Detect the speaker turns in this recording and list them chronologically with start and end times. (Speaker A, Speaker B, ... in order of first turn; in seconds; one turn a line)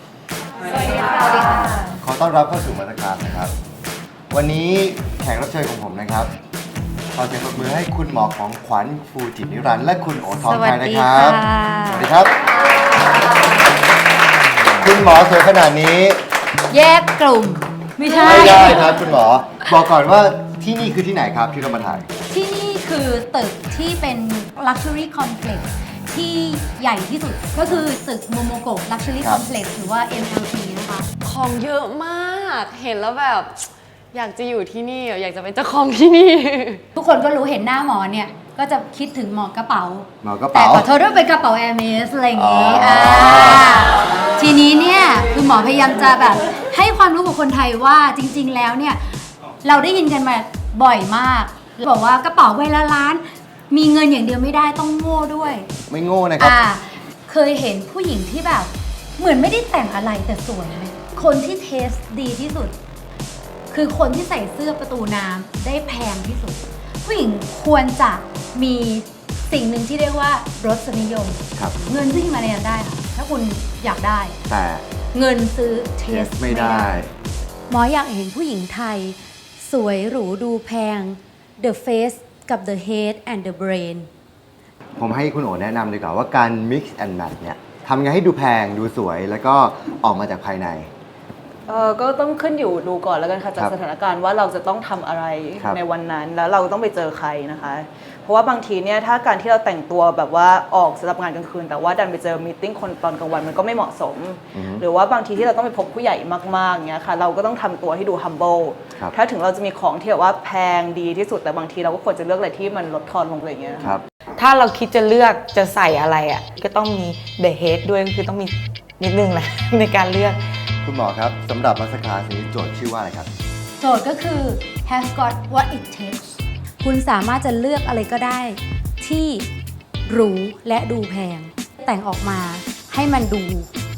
Speaker A: 0.7-1.8
Speaker B: 2.0-3.5
Speaker B: 4.3-6.3
Speaker B: 7.1-12.3
Speaker A: 10.4-12.1
Speaker B: 14.7-16.2
Speaker A: 16.7-18.9
Speaker B: 18.1-22.1
Speaker A: 22.3-31.1
Speaker C: 31.2-36.8
Speaker A: 37.0-55.7
Speaker B: 40.2-40.9
Speaker B: 42.3-43.8
Speaker B: 55.9-56.5
Speaker A: 56.4-62.7
Speaker A: 63.7-74.3
Speaker B: 74.5-74.8
Speaker A: 75.1-77.0
Speaker B: 76.1-77.1
Speaker A: 77.7-84.1
Speaker B: 85.0-90.9
Speaker D: 91.7-113.9
Speaker B: 104.5-104.8
Speaker E: 114.4-120.4
Speaker B: 120.8-123.3
Speaker A: 123.8-126.3
Speaker A: 126.8-129.5
Speaker A: 130.1-133.7